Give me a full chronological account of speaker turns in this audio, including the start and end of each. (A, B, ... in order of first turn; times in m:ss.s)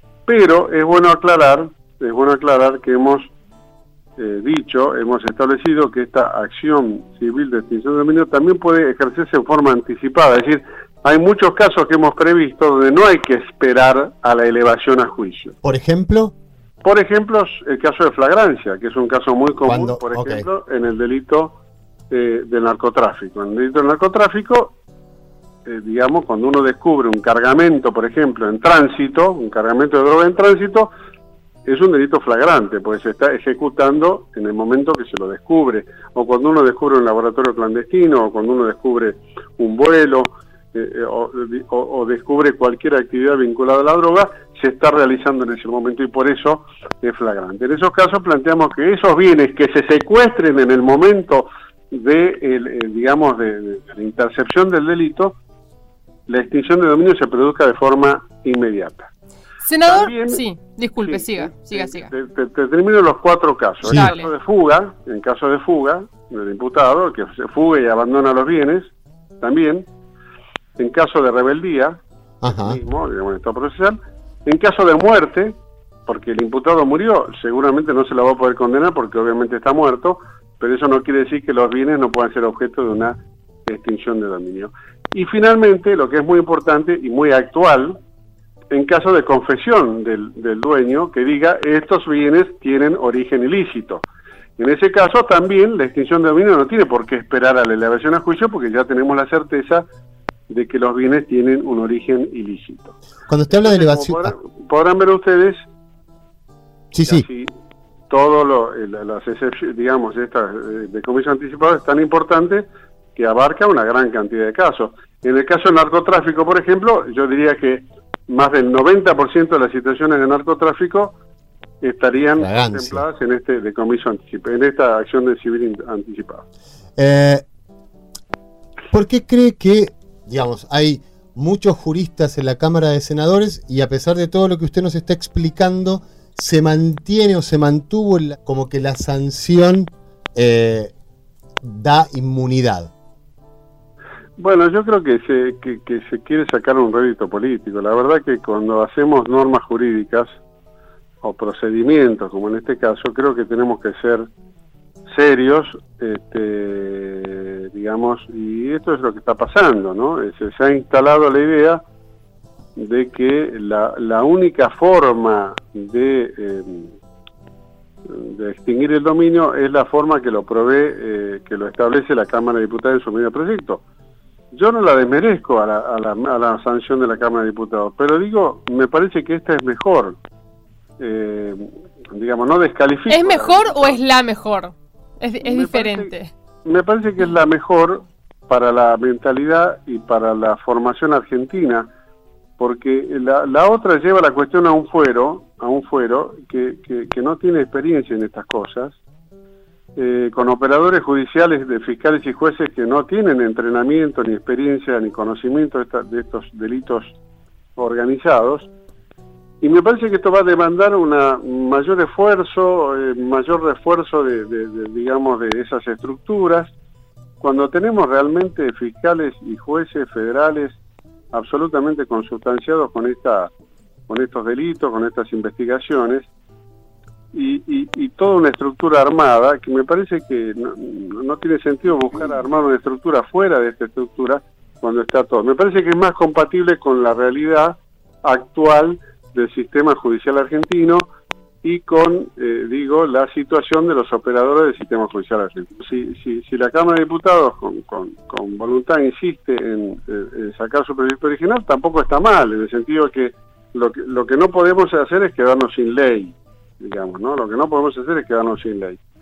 0:00.3-0:03.3 A
0:04.2-0:15.5 A
0:15.6-0:16.3 B
0:16.8-0:21.6 A
0:19.6-0:20.4 B
0:22.1-0:24.7 A
0:25.6-0:30.9 A
0:31.6-0:55.4 A
0:56.3-0:59.1 A
0:59.6-1:02.1 C
0:59.8-1:00.4 A
1:01.0-1:09.9 A
1:03.8-1:04.1 B
1:03.9-1:04.3 C
1:10.8-1:28.0 A
1:12.4-1:12.8 B
1:28.7-1:34.0 A
1:34.6-1:39.9 A
1:40.5-1:42.9 A
1:43.3-1:44.4 B
1:43.5-1:45.6 A
1:46.9-1:47.2 B
1:47.1-1:47.5 A
1:48.1-2:01.1 A
2:01.8-2:06.4 A
2:02.4-2:03.0 B
2:07.0-2:07.4 B
2:08.9-2:20.9 B
2:21.6-2:22.9 B
2:24.4-2:30.4 A
2:31.2-2:34.3 A
2:35.1-2:41.8 A
2:42.8-2:46.9 A
2:48.1-2:53.8 A
2:54.5-3:00.2 A
3:01.0-3:04.0 A
3:03.1-3:06.3 C
3:05.4-3:06.1 A
3:06.6-3:11.9 A
3:12.6-3:19.0 A
3:20.0-3:27.2 A
3:27.8-3:28.7 A
3:29.6-3:36.7 A
3:37.4-3:40.8 A
3:41.3-3:43.5 A
3:44.1-3:46.3 A
3:47.3-4:01.1 A
4:01.6-4:19.0 A